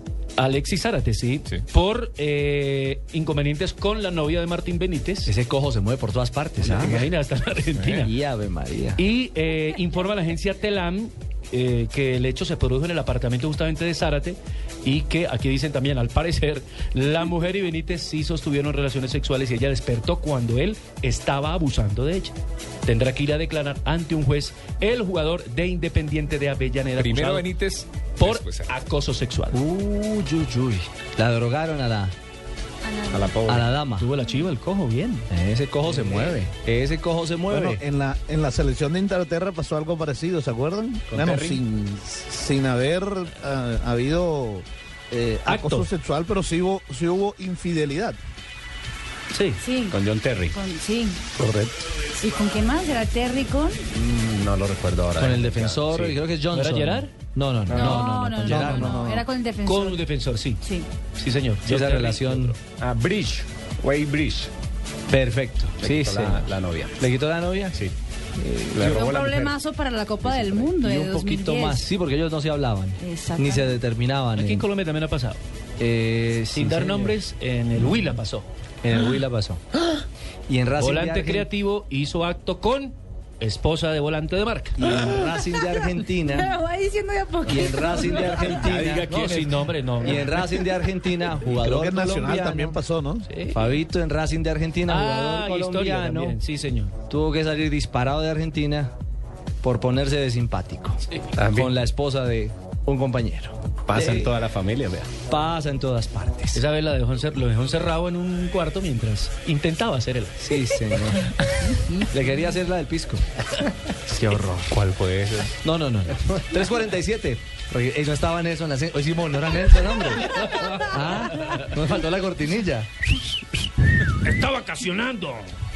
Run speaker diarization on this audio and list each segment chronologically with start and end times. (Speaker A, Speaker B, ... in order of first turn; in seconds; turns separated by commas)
Speaker A: 0.4-5.3, Speaker B: 5.2-7.1, Speaker A: 6.6-8.1, Speaker B: 8.0-9.0, Speaker A: 9.0-27.5, Speaker C: 27.0-28.7, Speaker A: 28.2-29.6, Speaker B: 29.5-32.1, Speaker D: 32.8-33.4, Speaker C: 33.1-33.8, Speaker B: 33.5-34.1, Speaker A: 34.0-35.3, Speaker B: 35.3-37.8, Speaker A: 35.8-36.4, Speaker E: 37.5-48.2, Speaker A: 41.1-41.5, Speaker A: 45.5-45.9, Speaker A: 49.3-49.6, Speaker D: 49.6-51.2, Speaker C: 49.9-50.5, Speaker C: 51.4-51.8, Speaker D: 52.1-53.9, Speaker C: 53.9-56.0, Speaker B: 55.2-59.0, Speaker A: 55.9-57.1, Speaker C: 57.7-58.0, Speaker D: 57.7-60.0, Speaker A: 58.5-58.9, Speaker E: 58.9-59.2, Speaker A: 59.6-60.6, Speaker A: 61.2-62.6, Speaker B: 61.6-62.5, Speaker C: 62.8-64.5, Speaker B: 65.1-67.8, Speaker C: 65.8-67.0, Speaker B: 68.4-68.9, Speaker C: 68.7-69.6, Speaker D: 68.8-71.8, Speaker C: 70.2-70.7, Speaker B: 70.8-74.7, Speaker D: 73.0-73.8, Speaker A: 74.4-75.4, Speaker B: 75.8-77.2, Speaker A: 76.5-78.5, Speaker B: 78.8-79.6, Speaker B: 80.5-81.5, Speaker A: 80.8-84.8, Speaker B: 84.8-86.6, Speaker D: 85.0-88.8, Speaker B: 87.5-89.1, Speaker A: 88.6-90.5, Speaker C: 88.9-89.6, Speaker B: 90.0-92.8, Speaker E: 91.5-93.3, Speaker A: 93.2-93.8, Speaker B: 93.5-96.4, Speaker A: 94.9-97.0, Speaker B: 97.1-98.9, Speaker B: 99.6-104.4, Speaker C: 101.4-101.7, Speaker C: 103.9-105.1, Speaker B: 105.3-106.6, Speaker A: 106.5-110.4, Speaker B: 110.4-111.3, Speaker B: 112.0-113.4, Speaker B: 114.1-114.7, Speaker C: 114.7-115.5, Speaker B: 115.6-122.9, Speaker A: 120.4-120.8, Speaker A: 124.2-125.5